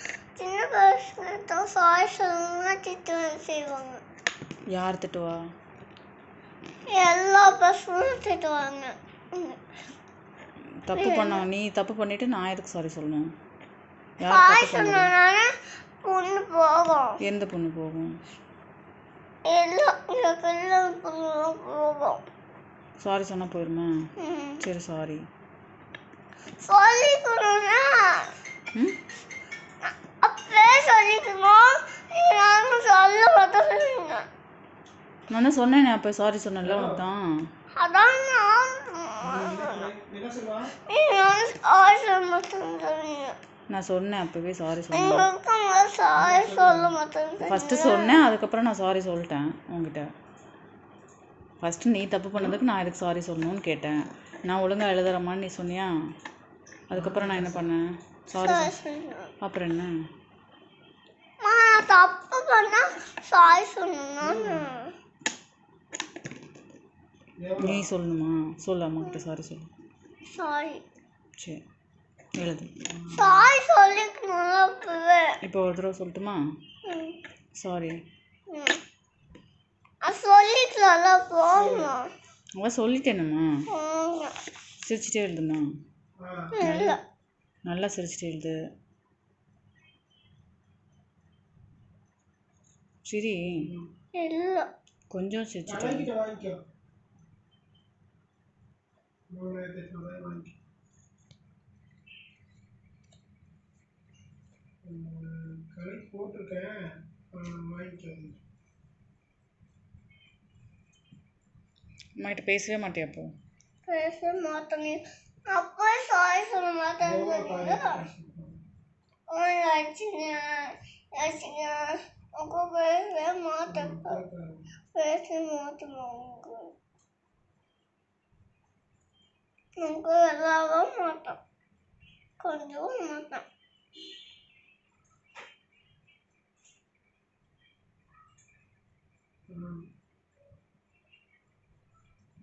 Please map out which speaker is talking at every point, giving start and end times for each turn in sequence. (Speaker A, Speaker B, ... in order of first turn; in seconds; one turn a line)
Speaker A: 0.3-4.0
Speaker B: 4.7-5.3
Speaker A: 6.9-9.6
Speaker B: 10.8-13.3
Speaker A: 10.9-11.4
Speaker B: 14.2-15.1
Speaker A: 14.2-15.5
Speaker A: 16.0-17.2
Speaker B: 17.2-18.1
Speaker A: 19.5-22.2
Speaker B: 23.0-23.9
Speaker A: 24.2-24.6
Speaker B: 24.6-25.2
Speaker A: 26.6-28.3
Speaker A: 29.8-34.2
Speaker B: 35.3-37.2
Speaker C: 36.6-37.0
Speaker A: 37.8-39.9
Speaker C: 39.2-40.7
Speaker A: 40.9-43.4
Speaker B: 43.7-45.3
Speaker A: 44.9-48.2
Speaker C: 46.1-47.0
Speaker B: 47.4-50.0
Speaker B: 51.6-55.9
Speaker B: 56.9-58.7
Speaker C: 56.9-57.7
Speaker A: 58.3-59.3
Speaker B: 59.4-59.9
Speaker A: 61.4-64.9
Speaker C: 64.2-64.7
Speaker C: 67.4-67.9
Speaker B: 67.6-69.7
Speaker A: 70.3-70.8
Speaker B: 72.4-72.7
Speaker C: 72.9-73.5
Speaker A: 73.1-75.3
Speaker B: 75.4-76.4
Speaker A: 76.8-77.2
Speaker B: 77.6-78.0
Speaker A: 78.5-78.8
Speaker A: 80.0-82.0
Speaker C: 81.5-81.9
Speaker B: 82.6-83.4
Speaker A: 83.7-84.3
Speaker B: 84.8-85.6
Speaker C: 86.2-86.5
Speaker A: 86.5-87.0
Speaker B: 86.6-87.0
Speaker B: 87.7-88.6
Speaker B: 93.0-93.4
Speaker A: 94.1-94.7
Speaker B: 95.1-96.1
Speaker C: 95.7-96.6
Speaker C: 99.3-100.5
Speaker C: 104.8-108.4
Speaker B: 112.2-113.3
Speaker A: 113.8-118.0
Speaker C: 117.0-118.6
Speaker A: 119.3-124.2
Speaker C: 123.7-124.6
Speaker A: 124.9-126.7
Speaker A: 129.8-131.4
Speaker A: 132.4-133.4
Speaker C: 139.5-139.8